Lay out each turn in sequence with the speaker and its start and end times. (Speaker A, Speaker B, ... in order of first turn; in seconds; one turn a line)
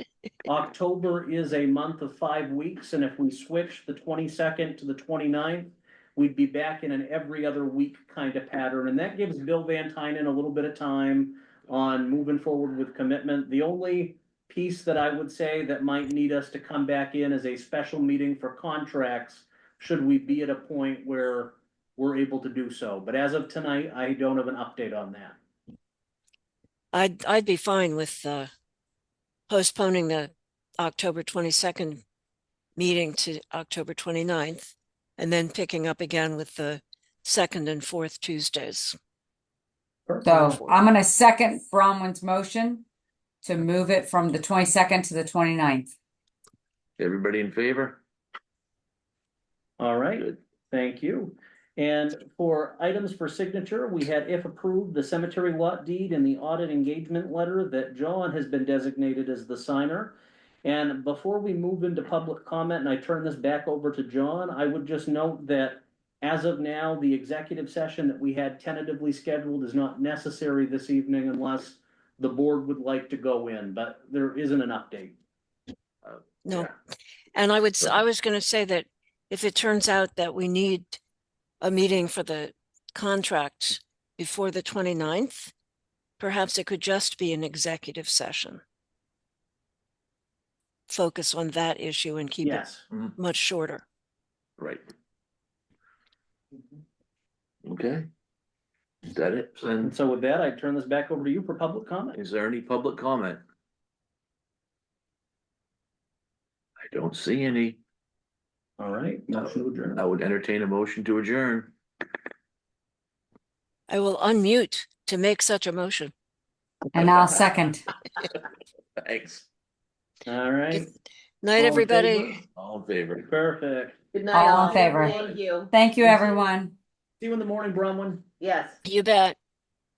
Speaker A: 0.4-25.4
Speaker B: 26.9-28.5
Speaker B: 29.5-32.0
Speaker B: 32.8-39.0
Speaker A: 40.1-40.6
Speaker C: 40.2-42.8
Speaker C: 43.4-45.9
Speaker D: 47.0-48.0
Speaker A: 49.8-75.2
Speaker D: 76.0-76.7
Speaker B: 76.4-76.7
Speaker B: 77.3-81.0
Speaker B: 81.6-85.5
Speaker B: 86.2-88.6
Speaker B: 90.9-92.6
Speaker A: 92.4-92.8
Speaker B: 93.2-93.8
Speaker D: 94.6-94.8
Speaker D: 97.6-98.1
Speaker D: 99.0-99.9
Speaker A: 99.8-102.2
Speaker D: 102.1-103.4
Speaker D: 106.9-107.8
Speaker A: 108.8-110.0
Speaker D: 109.3-111.7
Speaker B: 113.9-116.1
Speaker C: 116.9-117.8
Speaker D: 117.0-117.3
Speaker D: 119.0-119.5
Speaker A: 120.2-120.9
Speaker B: 121.4-122.4
Speaker A: 121.5-122.4
Speaker D: 122.5-123.3
Speaker A: 123.2-124.0
Speaker E: 124.1-125.7
Speaker C: 124.3-125.2
Speaker A: 124.5-124.8
Speaker C: 125.7-126.7
Speaker A: 127.2-128.2
Speaker E: 128.4-128.8
Speaker B: 128.8-129.3